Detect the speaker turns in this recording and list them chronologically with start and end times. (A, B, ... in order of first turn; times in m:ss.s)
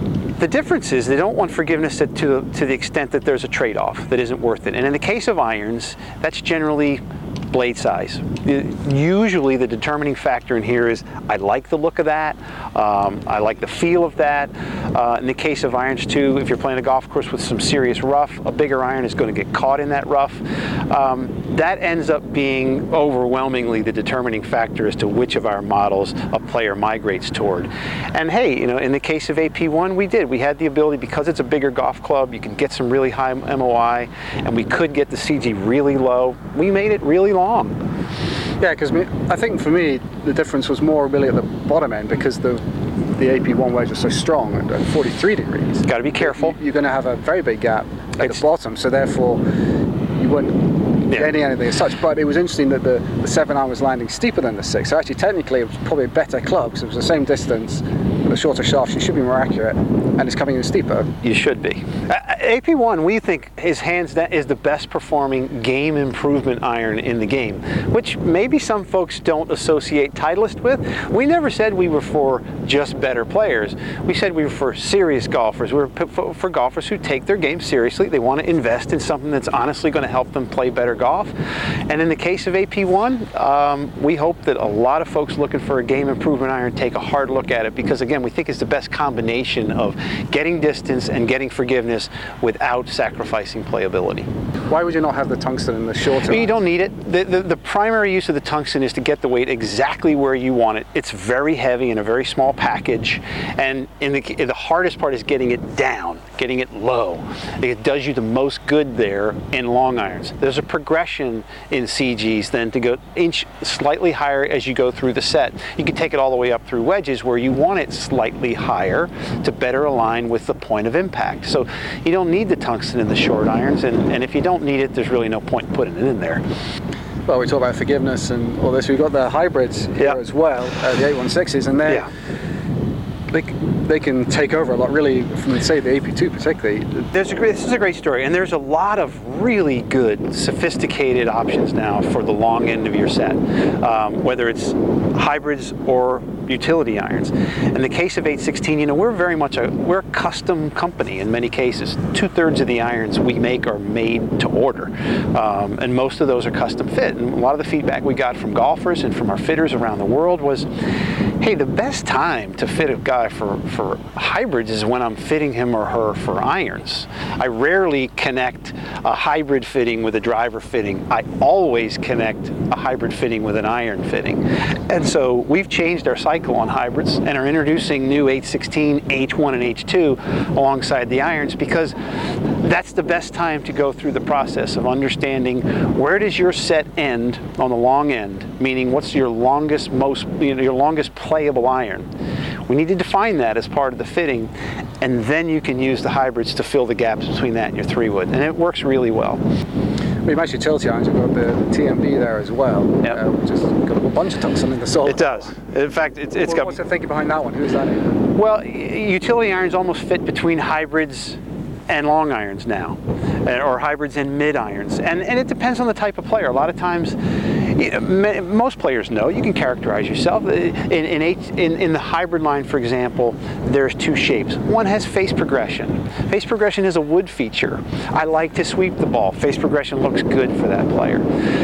0:00.4-0:37.7 A
0:38.6-0:49.4 B
0:45.8-0:46.5 A
0:50.2-1:01.1 B
1:01.2-1:21.3 A
1:21.9-1:34.3 A
1:34.7-1:36.6 B
1:36.3-2:06.4 A
2:07.3-2:12.1 B
2:13.3-2:17.0 B
2:16.9-2:40.7 A
2:41.4-3:01.9 A
3:02.6-3:12.0 A
3:12.7-3:19.4 A
3:20.2-3:25.5 B
3:25.0-3:26.8 A
3:26.4-3:28.1 B
3:28.3-3:51.2 A